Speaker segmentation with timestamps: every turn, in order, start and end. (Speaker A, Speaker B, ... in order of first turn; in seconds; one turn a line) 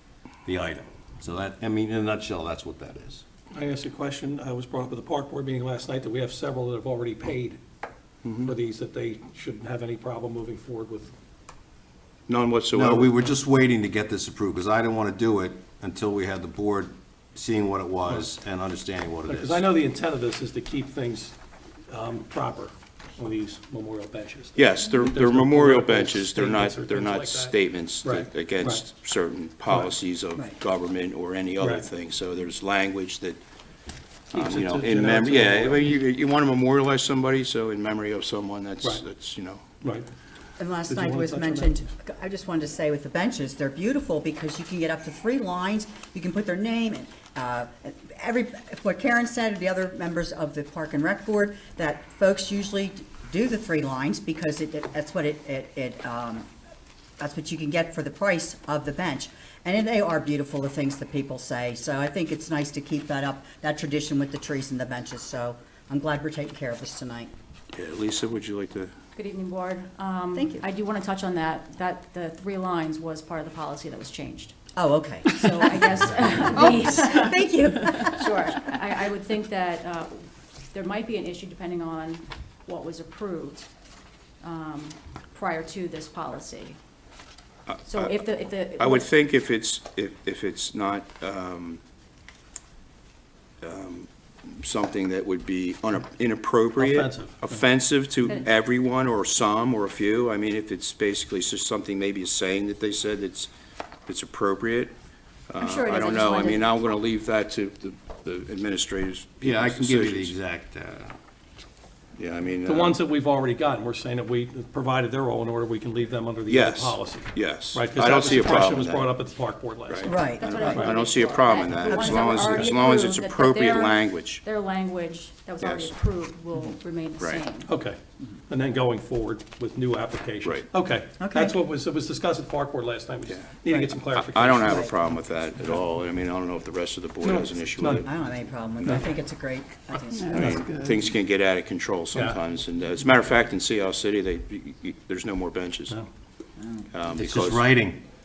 Speaker A: 0.5-3.2
Speaker B: 3.5-7.6
Speaker C: 8.2-8.5
Speaker B: 8.4-11.1
Speaker C: 12.3-13.1
Speaker A: 12.7-19.6
Speaker B: 19.3-21.4
Speaker B: 21.9-28.9
Speaker C: 24.6-33.4
Speaker B: 29.7-30.0
Speaker B: 31.6-31.9
Speaker C: 34.3-39.7
Speaker B: 34.3-36.0
Speaker B: 39.8-40.1
Speaker D: 40.6-56.5
Speaker B: 40.9-41.8
Speaker D: 57.2-67.3
Speaker C: 67.7-68.9
Speaker E: 69.2-74.5
Speaker D: 70.3-70.7
Speaker D: 74.8-78.3
Speaker E: 75.3-77.3
Speaker E: 78.0-80.2
Speaker E: 80.7-83.7
Speaker E: 84.4-86.8
Speaker C: 87.7-88.2
Speaker E: 87.9-89.1
Speaker C: 88.8-91.8
Speaker C: 93.6-94.1
Speaker C: 94.6-103.5
Speaker B: 96.8-97.7
Speaker C: 104.1-105.0
Speaker C: 105.5-110.3
Speaker E: 105.6-106.7
Speaker A: 109.4-111.1
Speaker C: 112.2-113.0
Speaker B: 112.6-121.0
Speaker C: 116.5-119.2
Speaker C: 119.9-124.4
Speaker D: 120.1-120.9
Speaker E: 120.3-127.7
Speaker D: 121.8-122.6
Speaker C: 125.6-125.9
Speaker C: 127.2-127.5
Speaker B: 127.6-134.9
Speaker D: 131.2-131.6
Speaker C: 133.3-138.1
Speaker D: 134.6-134.9
Speaker B: 137.2-138.1
Speaker D: 138.0-140.5
Speaker C: 140.3-146.0
Speaker B: 142.1-142.4
Speaker C: 146.9-147.8
Speaker A: 147.1-148.0